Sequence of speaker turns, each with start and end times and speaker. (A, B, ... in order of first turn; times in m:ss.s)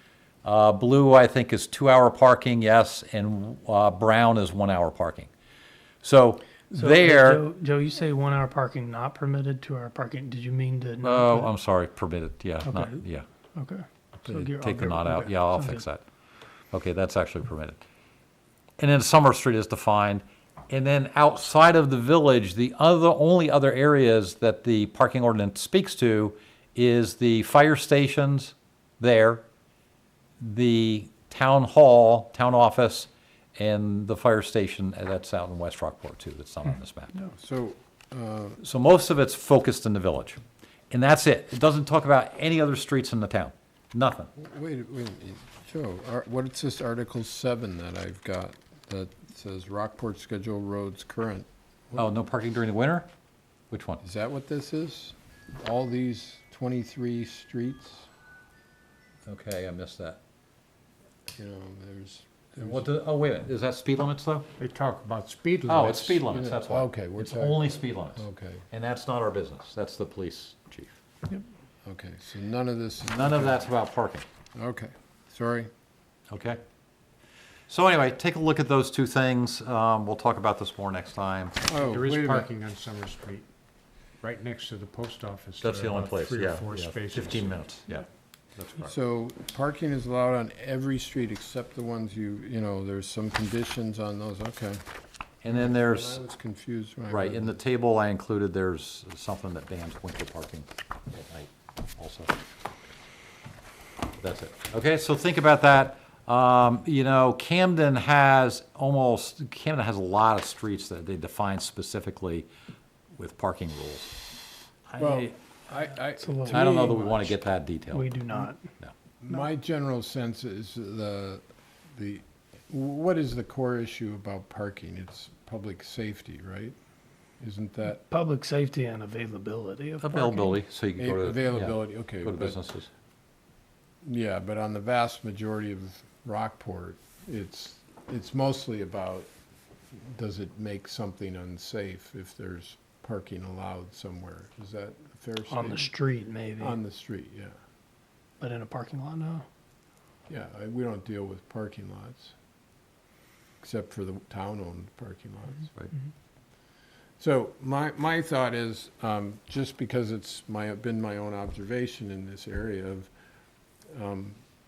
0:00.4-0:05.3 A
0:06.0-0:07.4 A
0:06.7-0:11.5 B
0:11.0-0:13.2 A
0:12.6-0:13.0 B
0:13.5-0:15.8 B
0:14.2-0:16.0 A
0:16.7-0:17.8 A
0:18.8-0:29.4 A
0:30.4-0:37.1 A
0:37.2-0:38.6 C
0:38.6-0:40.4 A
0:40.9-0:44.3 A
0:44.3-0:52.1 C
0:51.9-0:53.1 A
0:53.7-0:54.0 A
0:54.0-0:58.1 C
0:59.2-1:00.2 A
1:01.3-1:02.9 C
1:02.6-1:04.5 A
1:04.6-1:06.2 D
1:05.7-1:11.0 A
1:06.2-1:08.6 C
1:11.8-1:13.6 C
1:13.1-1:14.2 A
1:14.5-1:15.7 C
1:16.3-1:16.6 A
1:17.7-1:21.6 A
1:21.7-1:23.5 D
1:21.7-1:22.5 C
1:24.2-1:27.6 D
1:25.6-1:28.9 A
1:28.8-1:34.8 C
1:35.4-1:36.2 A
1:35.5-1:37.6 C
1:37.1-1:42.3 A
1:44.2-1:52.5 A
1:53.1-1:54.1 A
1:54.9-1:55.3 A
1:55.0-1:57.4 C
1:56.2-1:56.9 B
1:56.4-1:58.1 A
1:57.9-1:58.6 B
1:59.2-2:01.4 C
2:01.9-2:06.7 C
2:07.4-2:08.0 C
2:08.0-2:10.6 B
2:10.0-2:12.9 A
2:11.0-2:12.6 C
2:14.0-2:19.3 C
2:19.9-2:25.9 C
2:25.5-2:26.8 B
2:26.6-2:27.5 C
2:28.4-2:29.4 B
2:30.3-2:32.3 C
2:33.6-2:35.7 C
2:37.2-2:43.1 C
2:43.9-2:44.4 C